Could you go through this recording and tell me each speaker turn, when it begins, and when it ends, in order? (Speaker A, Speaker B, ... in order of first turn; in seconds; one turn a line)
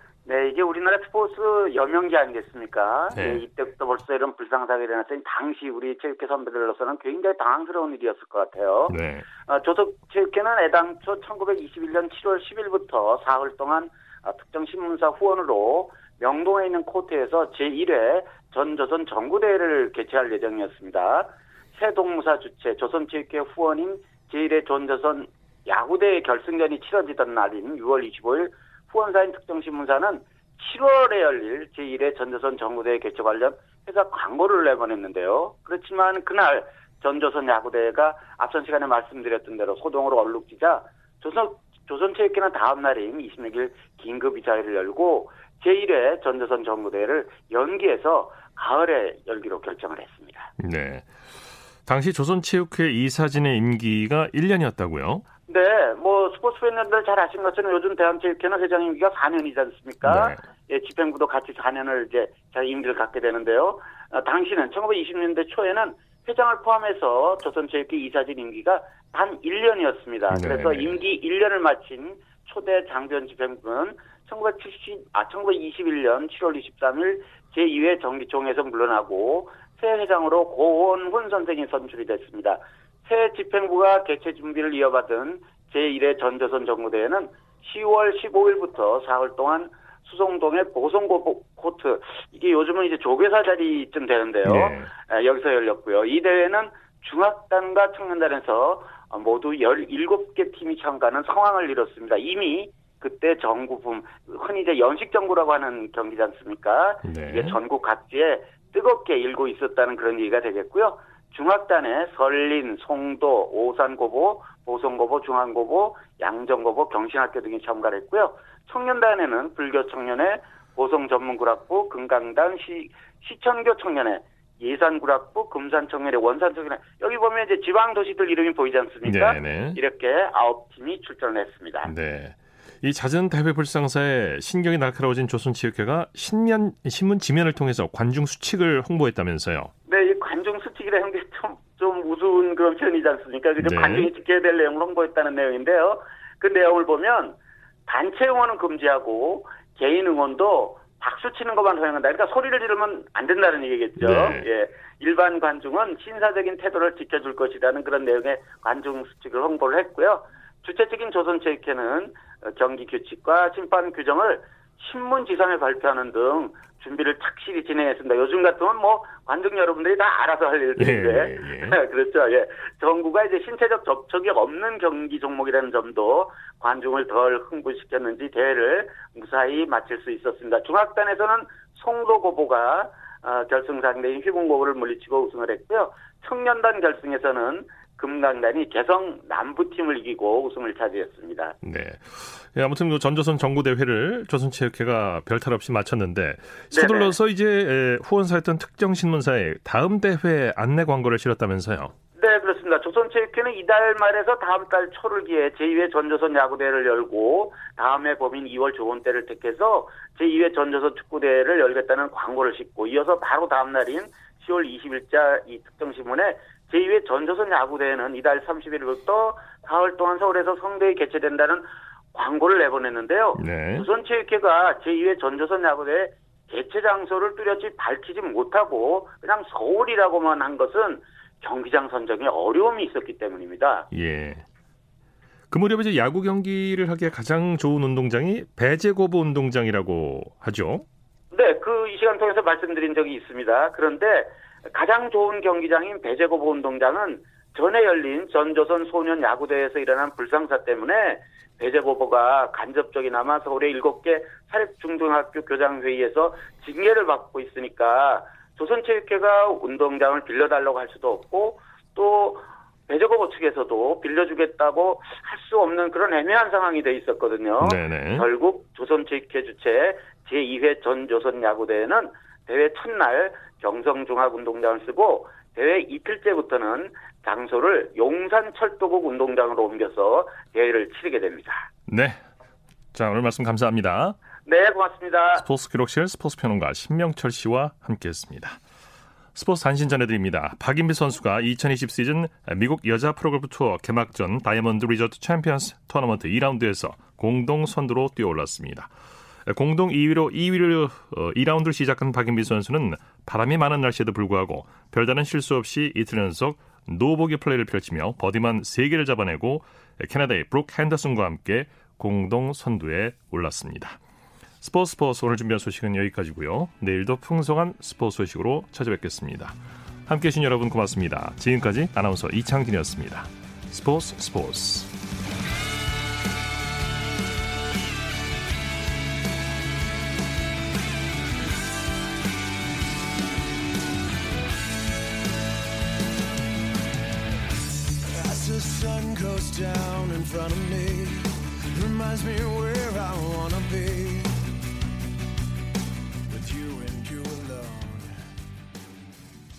Speaker A: 0.2-50.5
Speaker B: 3.1-3.4
Speaker B: 8.9-9.3
Speaker B: 50.6-51.1
Speaker B: 51.9-55.2
Speaker A: 55.5-131.9
Speaker B: 60.0-60.4
Speaker B: 70.3-71.0
Speaker B: 94.4-94.9
Speaker B: 107.0-107.6
Speaker B: 129.0-129.8
Speaker B: 131.8-139.7
Speaker A: 139.8-191.6
Speaker B: 143.6-144.1
Speaker B: 154.0-154.4
Speaker B: 170.8-171.8
Speaker B: 191.6-201.9
Speaker A: 196.7-197.1
Speaker A: 202.2-233.9
Speaker B: 223.4-223.9
Speaker B: 233.9-234.4
Speaker B: 235.5-240.8
Speaker A: 241.3-281.7
Speaker B: 267.6-268.2
Speaker B: 281.9-282.2
Speaker B: 282.9-284.2
Speaker A: 284.4-285.4
Speaker B: 285.4-288.6
Speaker B: 289.3-298.9
Speaker B: 299.4-314.0
Speaker B: 314.6-324.9
Speaker C: 338.1-344.4
Speaker C: 346.3-348.1